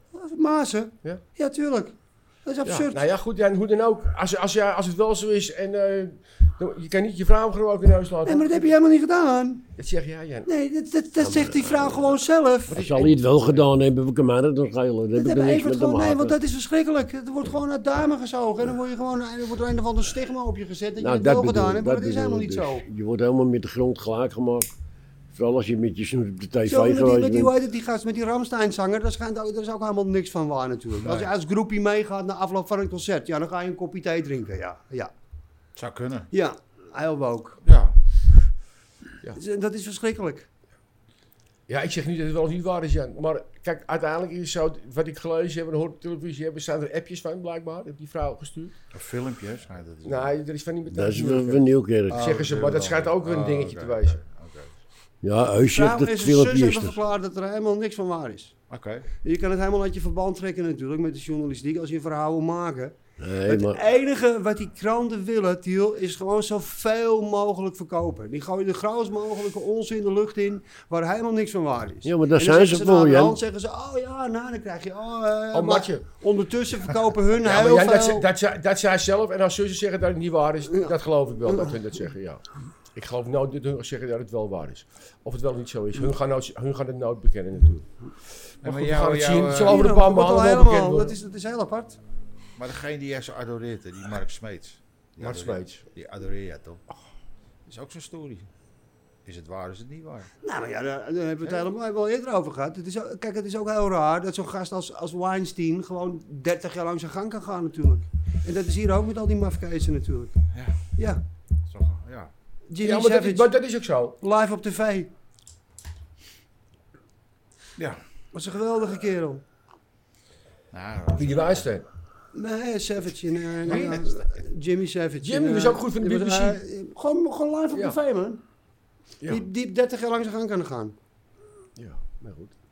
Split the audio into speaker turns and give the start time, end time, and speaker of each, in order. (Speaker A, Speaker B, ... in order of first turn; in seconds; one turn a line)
Speaker A: 0.1-3.0
Speaker B: 2.6-8.7
Speaker A: 8.3-9.7
Speaker B: 9.8-10.5
Speaker A: 10.5-12.9
Speaker C: 11.2-12.2
Speaker B: 12.7-13.6
Speaker C: 12.7-16.4
Speaker A: 15.2-22.9
Speaker C: 21.0-24.7
Speaker C: 25.3-27.5
Speaker A: 26.7-35.1
Speaker D: 31.0-31.3
Speaker D: 35.8-36.3
Speaker A: 36.3-37.6
Speaker D: 37.6-38.0
Speaker A: 39.4-40.5
Speaker B: 41.7-48.8
Speaker D: 48.9-50.3
Speaker B: 50.0-54.2
Speaker C: 50.9-52.3
Speaker D: 52.1-54.7
Speaker C: 55.2-57.0
Speaker A: 55.6-58.5
Speaker D: 58.7-59.1
Speaker A: 59.2-78.3
Speaker C: 63.2-63.8
Speaker C: 72.0-73.4
Speaker B: 75.5-76.1
Speaker B: 77.4-82.4
Speaker A: 80.7-81.8
Speaker B: 83.0-87.9
Speaker D: 88.6-89.9
Speaker B: 88.6-91.2
Speaker A: 89.6-92.0
Speaker D: 92.6-96.8
Speaker B: 95.2-95.8
Speaker D: 97.7-98.5
Speaker D: 99.2-100.3
Speaker A: 100.4-110.4
Speaker D: 110.5-110.8
Speaker A: 111.0-111.2
Speaker D: 111.7-112.3
Speaker A: 112.7-113.5
Speaker B: 112.8-114.2
Speaker A: 114.2-115.1
Speaker A: 118.3-119.4
Speaker D: 120.7-121.7
Speaker B: 121.1-121.8
Speaker A: 122.3-128.4
Speaker B: 123.6-124.1
Speaker B: 125.2-126.6
Speaker B: 127.7-128.0
Speaker A: 129.3-131.0
Speaker B: 131.8-132.5